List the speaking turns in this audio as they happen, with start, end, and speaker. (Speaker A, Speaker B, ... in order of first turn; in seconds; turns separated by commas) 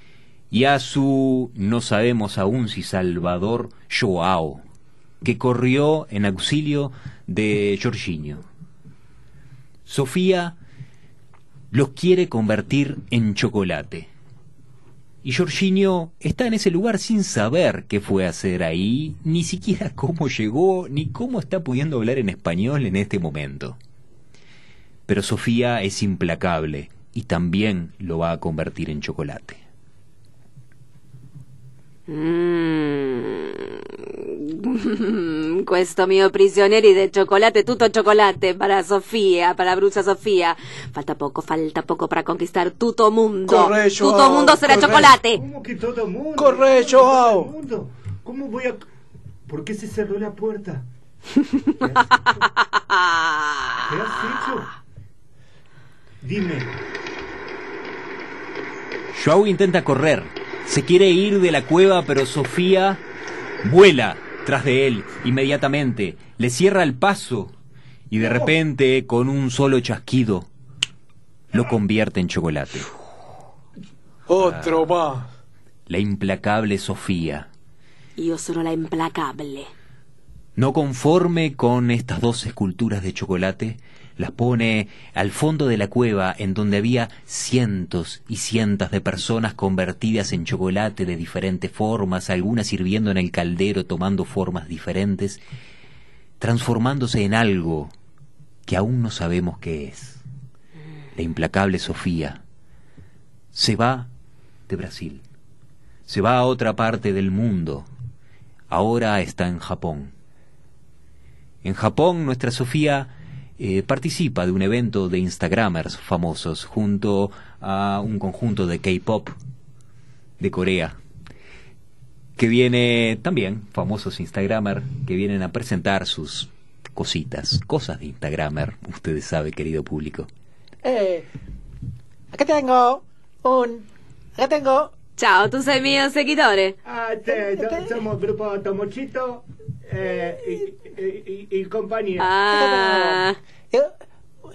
Speaker A: 0.5-4.6, Speaker A: 5.2-8.4, Speaker A: 9.8-10.6, Speaker A: 11.7-14.1, Speaker A: 15.2-23.8, Speaker A: 25.1-29.6, Speaker B: 32.1-45.4, Speaker C: 43.5-45.0, Speaker D: 44.6-48.8, Speaker C: 46.4-47.5, Speaker D: 49.5-50.9, Speaker D: 51.8-52.5, Speaker B: 52.7-54.5, Speaker D: 53.8-54.7, Speaker D: 56.2-56.7, Speaker A: 59.1-63.0, Speaker A: 63.6-67.5, Speaker A: 68.1-70.5, Speaker D: 68.2-68.5, Speaker A: 71.5-72.9, Speaker C: 74.3-75.3, Speaker A: 74.3-74.9, Speaker A: 75.9-77.5, Speaker B: 78.2-79.7, Speaker A: 80.5-95.4, Speaker A: 96.4-97.9, Speaker A: 98.7-100.2, Speaker A: 101.2-102.4, Speaker A: 103.5-104.1, Speaker A: 104.7-105.2, Speaker A: 106.1-107.9, Speaker A: 108.7-110.1, Speaker A: 111.6-119.3, Speaker A: 120.4-121.0, Speaker A: 122.4-130.3, Speaker E: 130.8-131.3, Speaker E: 132.3-134.9, Speaker B: 135.2-136.8, Speaker D: 136.8-142.3, Speaker E: 137.3-137.9, Speaker B: 142.2-143.4, Speaker E: 142.5-143.9